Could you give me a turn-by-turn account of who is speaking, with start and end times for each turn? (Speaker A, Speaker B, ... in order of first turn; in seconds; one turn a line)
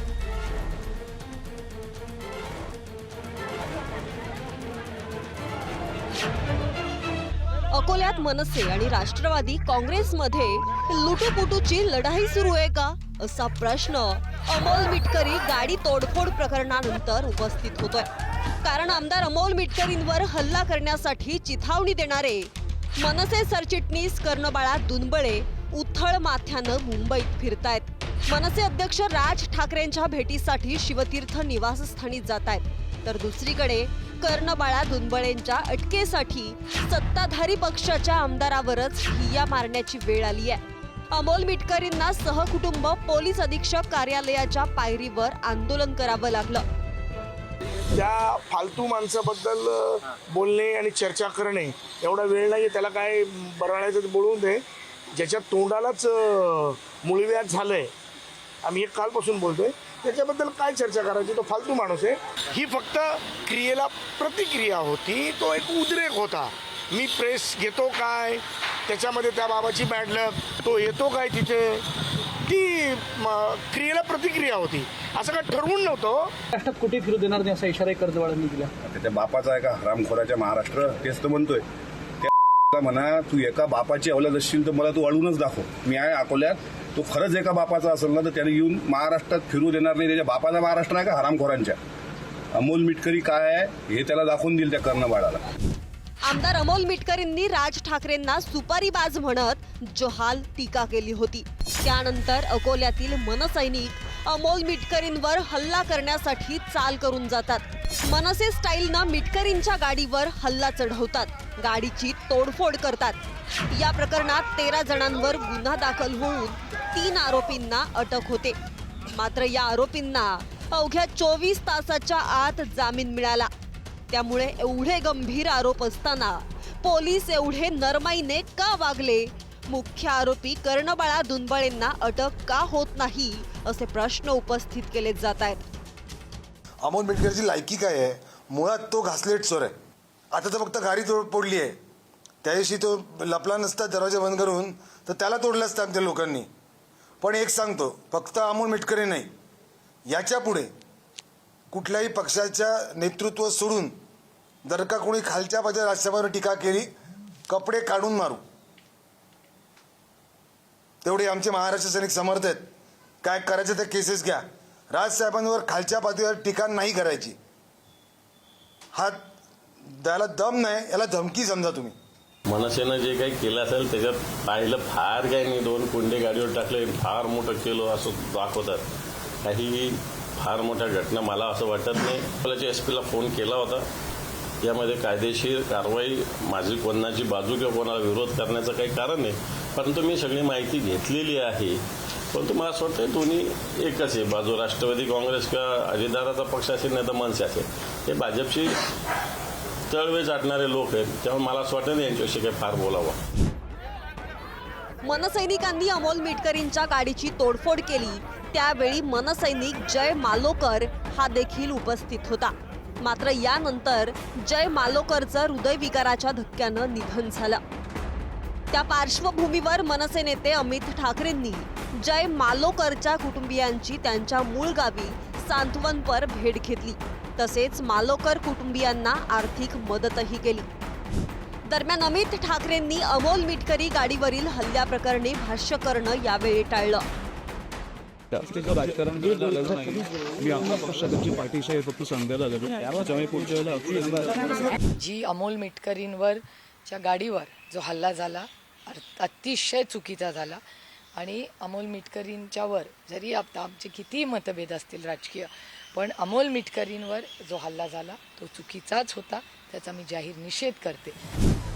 Speaker A: 7.7-18.1
Speaker A: 18.6-40.6
Speaker A: 41.1-46.6
Speaker B: 47.9-57.9
Speaker B: 58.6-71.8
Speaker B: 72.5-76.3
Speaker C: 76.5-78.7
Speaker D: 78.8-81.6
Speaker D: 82.2-91.8
Speaker D: 92.5-95.4
Speaker A: 96.2-113.2
Speaker A: 113.7-118.5
Speaker A: 119.1-123.5
Speaker A: 124.1-135.6
Speaker E: 136.8-139.7
Speaker E: 140.3-141.7
Speaker E: 142.4-146.5
Speaker E: 147.2-149.3
Speaker E: 150.1-150.7
Speaker E: 151.7-153.9
Speaker E: 154.6-156.9
Speaker E: 157.5-158.4
Speaker E: 161.0-162.7
Speaker E: 163.2-167.4
Speaker E: 168.9-169.2
Speaker E: 169.9-171.9
Speaker F: 172.5-178.8
Speaker F: 179.4-183.8
Speaker F: 184.6-191.8
Speaker F: 192.3-198.8
Speaker F: 199.9-203.2
Speaker A: 205.0-217.6
Speaker A: 218.7-230.7
Speaker A: 231.7-237.0
Speaker G: 238.3-244.4
Speaker H: 245.0-250.6
Speaker H: 251.2-261.2